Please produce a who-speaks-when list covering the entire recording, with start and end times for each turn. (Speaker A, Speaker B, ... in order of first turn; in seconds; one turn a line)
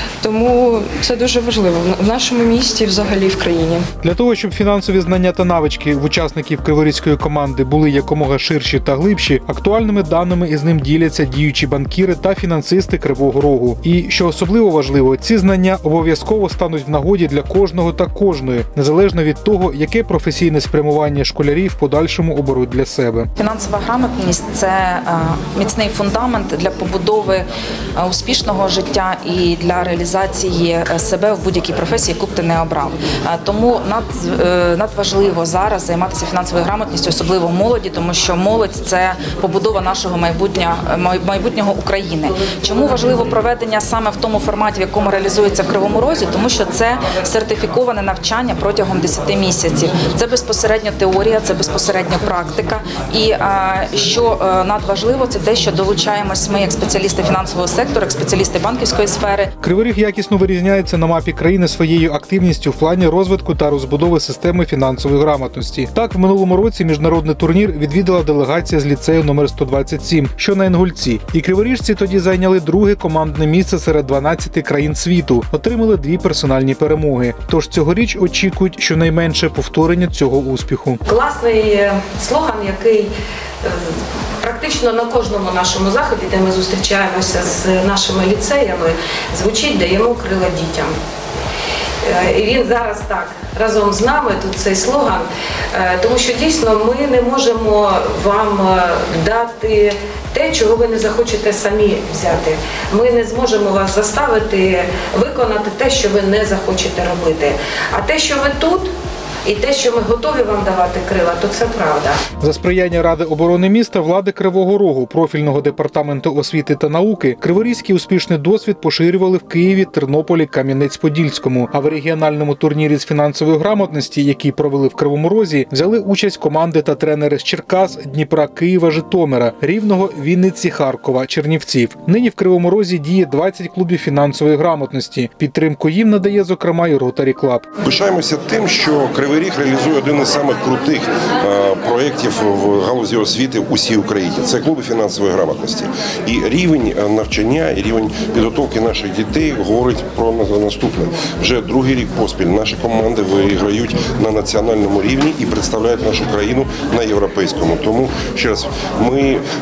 Speaker A: 0.2-3.9
Speaker B: 4.0-23.3
Speaker C: 23.4-59.5
Speaker B: 59.6-81.0
Speaker D: 81.1-83.1
Speaker D: 83.6-90.9
Speaker D: 92.0-108.9
Speaker D: 109.5-112.2
Speaker B: 112.4-137.7
Speaker E: 137.8-159.4